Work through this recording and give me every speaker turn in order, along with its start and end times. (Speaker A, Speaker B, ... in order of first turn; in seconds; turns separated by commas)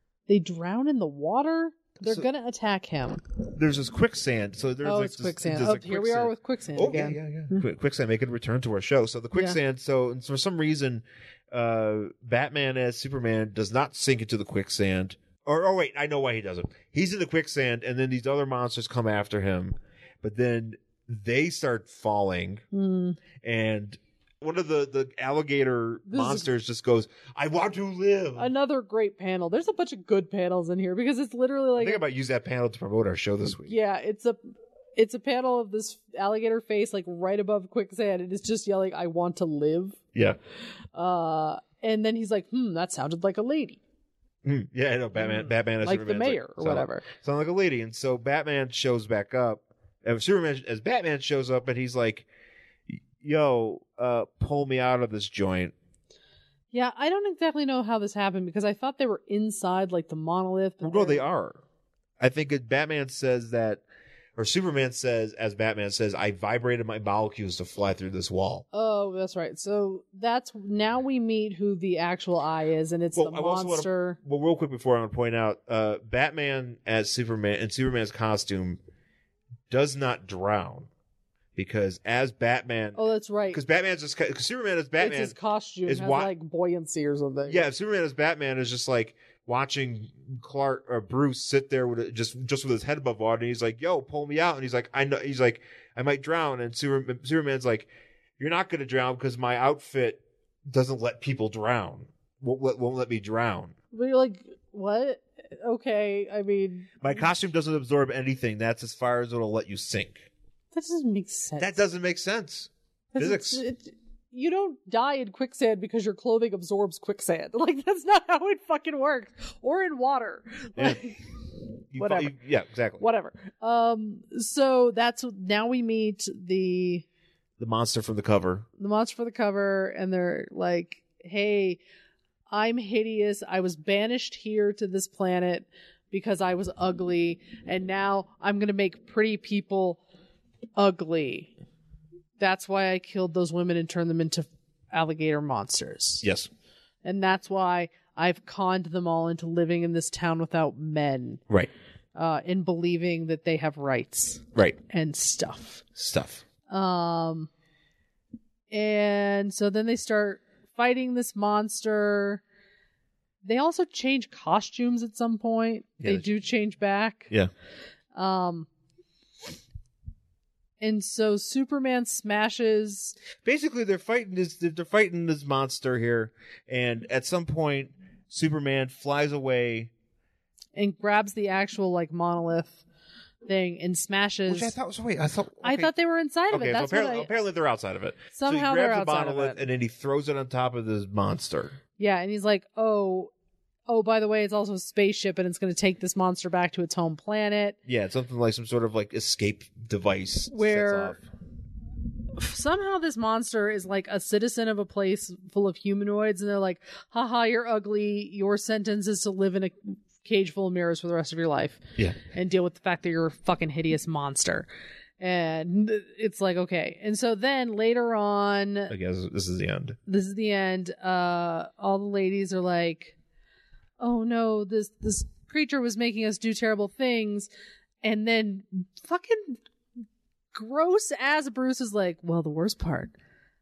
Speaker A: 0.3-3.2, Speaker B: 3.5-22.6, Speaker A: 4.8-7.7, Speaker A: 22.7-23.2, Speaker B: 23.4-28.5, Speaker A: 26.1-26.5, Speaker A: 28.4-32.0, Speaker B: 31.8-33.8, Speaker A: 33.7-34.4, Speaker A: 35.0-40.0, Speaker A: 40.9-43.8, Speaker B: 44.4-52.3, Speaker A: 45.2-47.0, Speaker B: 52.9-55.7, Speaker A: 56.7-61.2, Speaker B: 60.8-61.6, Speaker B: 62.2-63.8, Speaker B: 64.4-68.7, Speaker A: 68.7-74.2, Speaker B: 73.1-78.8, Speaker B: 79.7-80.9, Speaker B: 81.6-83.0, Speaker A: 83.0-83.6, Speaker B: 83.5-86.3, Speaker A: 85.0-87.7, Speaker B: 87.5-103.7, Speaker A: 103.9-107.2, Speaker B: 107.0-110.3, Speaker A: 110.7-111.8, Speaker B: 111.6-113.6, Speaker A: 113.1-121.2, Speaker B: 121.9-123.0, Speaker A: 122.0-122.3, Speaker A: 123.0-127.0, Speaker B: 127.6-128.7, Speaker A: 128.8-131.8, Speaker A: 132.5-140.0, Speaker A: 140.8-141.5, Speaker A: 142.4-146.2, Speaker B: 146.2-146.5, Speaker A: 147.0-151.4, Speaker A: 152.2-155.9, Speaker B: 156.0-156.4, Speaker A: 156.7-157.5, Speaker A: 158.7-162.4, Speaker A: 163.4-167.3, Speaker B: 166.0-166.3, Speaker A: 168.2-168.7, Speaker A: 170.8-173.2, Speaker B: 173.4-179.9, Speaker A: 180.8-182.8, Speaker A: 183.5-184.7, Speaker B: 184.5-185.9, Speaker A: 185.6-187.3, Speaker B: 186.5-191.8, Speaker A: 188.3-189.6, Speaker A: 192.0-193.3, Speaker A: 193.9-197.8, Speaker B: 197.9-201.2, Speaker A: 200.5-201.2, Speaker A: 202.3-214.7, Speaker A: 215.2-218.9, Speaker B: 218.9-220.0, Speaker A: 220.1-223.2, Speaker A: 224.0-227.5, Speaker A: 228.0-229.6, Speaker A: 230.5-233.1